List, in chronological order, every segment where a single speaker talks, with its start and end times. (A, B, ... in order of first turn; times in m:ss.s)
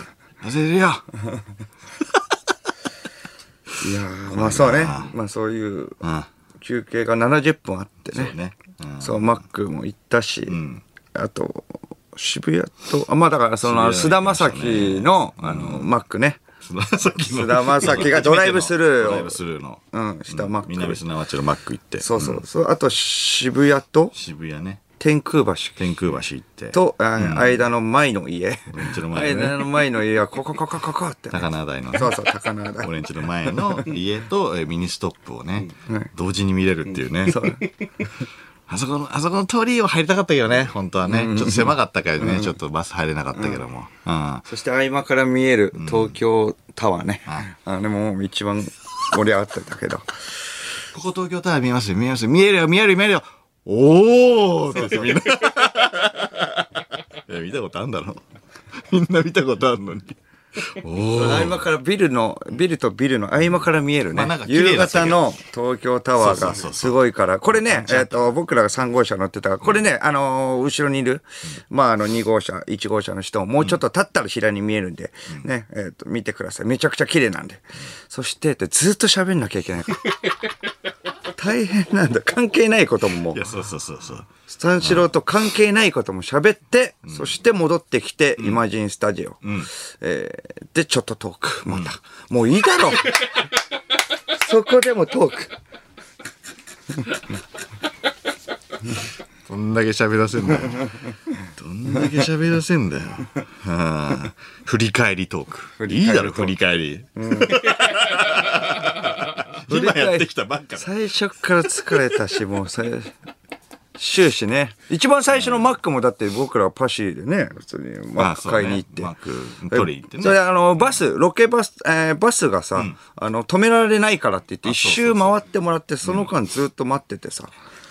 0:00.4-0:01.0 A
0:03.8-0:06.0 B
0:04.3-0:05.1 A
0:06.0-0:06.3 A
0:06.6-0:08.4 B
0:08.1-0:09.3 A
0:09.0-0:10.6 B
0:10.5-0:10.8 A
0:11.1-0:16.4 B
0:13.6-0:15.9 A
0:16.6-0:22.4 A
0:17.2-0:19.4 B
0:19.9-0:21.0 B
0:22.0-0:24.2 B
0:24.1-0:24.8 A
0:25.0-0:25.8 B
0:25.8-0:27.7 A
0:26.7-0:32.9 B
0:28.7-0:29.6 A
0:31.3-0:32.2 A
0:32.8-0:37.6 A
0:37.3-0:37.7 B
0:38.7-0:44.5 A
0:41.1-0:41.7 B
0:44.5-0:50.1 B
0:45.7-0:46.2 A
0:50.9-0:58.2 A
0:54.7-0:55.2 B
0:58.7-1:01.7 A
1:01.1-1:20.1 B
1:04.1-1:05.3 A
1:06.2-1:08.3 A
1:21.4-1:23.5 B
1:23.3-1:24.3 A
1:24.5-1:33.2 B
1:24.8-1:25.1 A
1:27.1-1:27.3 A
1:29.4-1:29.7 A
1:31.7-1:31.9 A
1:34.3-1:35.5 B
1:39.5-1:50.9 A
1:45.8-1:46.5 B
1:47.2-1:47.6 B
1:49.7-1:53.1 B
1:54.0-1:59.1 B
1:58.2-2:00.4 A
1:59.7-2:07.5 B
2:04.6-2:05.4 A